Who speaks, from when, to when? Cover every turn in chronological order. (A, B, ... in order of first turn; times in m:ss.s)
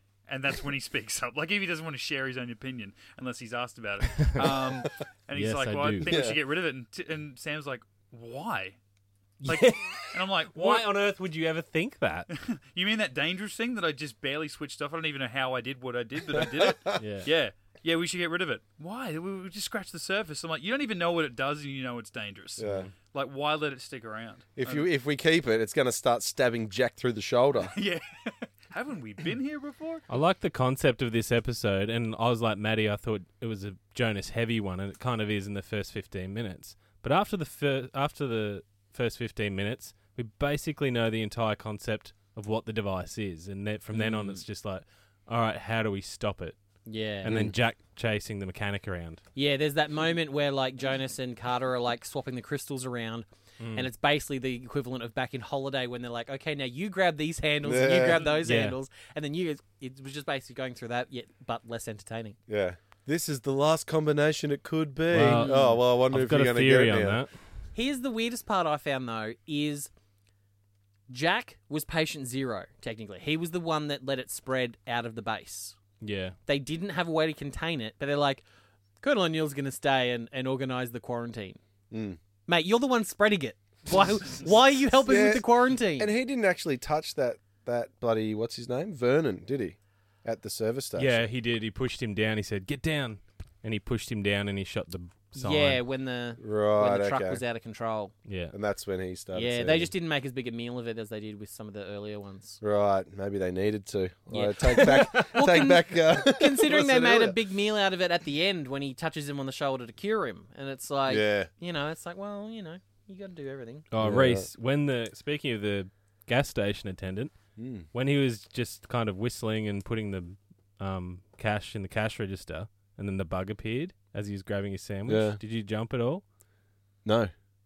0:00.3-0:08.8 A
0:05.4-0:06.2 B
0:06.0-0:06.4 C
0:09.4-0:12.3 B
0:09.5-0:10.9 A
0:12.3-0:24.9 A
0:16.4-0:17.0 C
0:17.0-0:17.3 B
0:22.6-0:22.9 C
0:24.6-0:27.7 C
0:27.7-0:30.0 A
0:30.1-0:46.6 B
0:43.9-0:44.4 D
0:46.9-0:47.4 D
0:47.2-0:49.2 B
0:47.3-0:47.6 C
0:49.4-1:02.4 D
0:53.6-0:53.9 B
0:57.6-0:58.2 C
0:58.4-0:58.8 B
1:02.5-1:07.2 C
1:05.1-1:07.3 B
1:05.2-1:05.8 D
1:07.7-1:09.9 D
1:11.1-1:15.8 D
1:16.0-1:16.4 B
1:16.5-1:18.4 D
1:19.0-1:21.6 D
1:21.9-1:22.2 C
1:22.5-1:26.1 D
1:25.0-1:31.3 C
1:31.0-1:35.8 B
1:35.4-1:38.1 D
1:36.4-1:37.4 C
1:38.3-1:38.5 B
1:38.5-1:39.9 C
1:39.3-1:42.6 D
1:42.6-1:47.4 C
1:44.3-1:53.9 D
1:51.1-1:51.5 C
1:53.9-1:57.3 B
1:54.0-1:54.5 C
1:57.6-1:57.9 C
1:57.9-2:06.2 B
2:05.1-2:05.4 C
2:07.0-2:07.3 C